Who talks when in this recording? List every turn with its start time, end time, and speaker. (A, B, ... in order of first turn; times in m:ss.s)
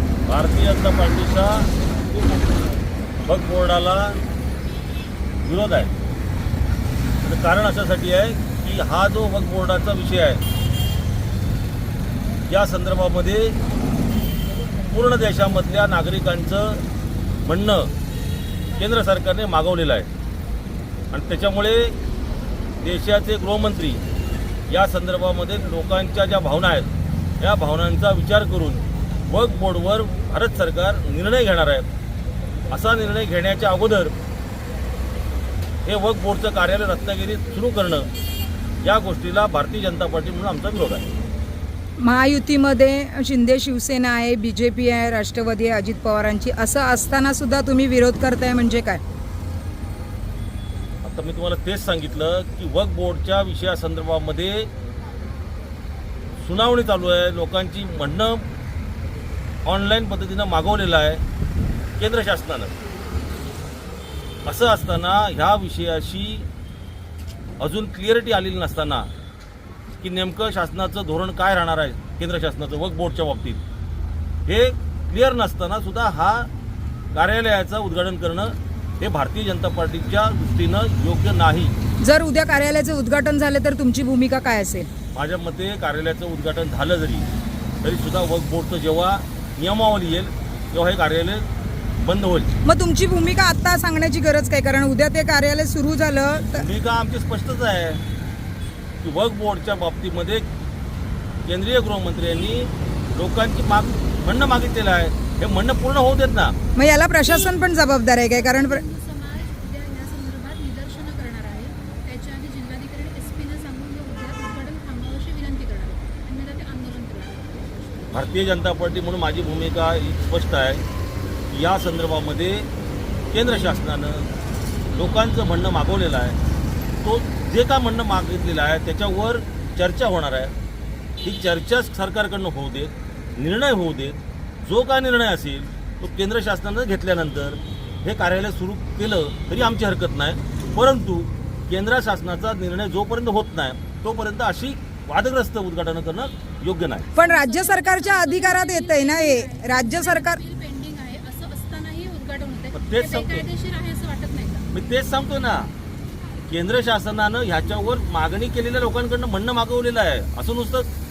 0:00.3-0:02.7 A
0:03.2-0:04.2 A
0:05.4-0:05.9 A
0:07.2-0:10.4 A
0:12.5-0:13.6 A
0:14.9-0:16.8 A
0:17.4-0:17.9 A
0:18.7-0:20.1 A
0:21.1-0:21.9 A
0:22.8-0:24.0 A
0:24.7-0:31.9 A
0:32.7-0:34.1 A
0:35.8-0:38.1 A
0:38.8-0:41.0 A
0:42.0-0:49.0 B
0:51.0-0:54.7 A
0:56.4-0:58.4 A
0:59.6-1:01.2 A
1:02.0-1:02.7 A
1:04.4-1:06.5 A
1:07.6-1:09.1 A
1:10.0-1:13.6 A
1:14.4-1:16.5 A
1:17.1-1:21.7 A
1:22.0-1:24.9 B
1:25.1-1:27.3 A
1:27.8-1:31.4 A
1:32.0-1:32.5 A
1:32.6-1:36.7 B
1:36.5-1:38.0 A
1:39.0-1:40.4 A
1:41.4-1:46.5 A
1:46.8-1:48.8 B
1:48.3-1:58.2 C
1:58.1-2:00.8 A
2:01.5-2:02.7 A
2:03.3-2:04.3 A
2:04.9-2:06.4 A
2:07.0-2:10.5 A
2:11.2-2:27.1 A
2:27.1-2:34.7 C
2:27.2-2:30.4 B
2:32.7-2:33.4 A
2:34.7-2:35.7 A
2:36.5-2:40.9 A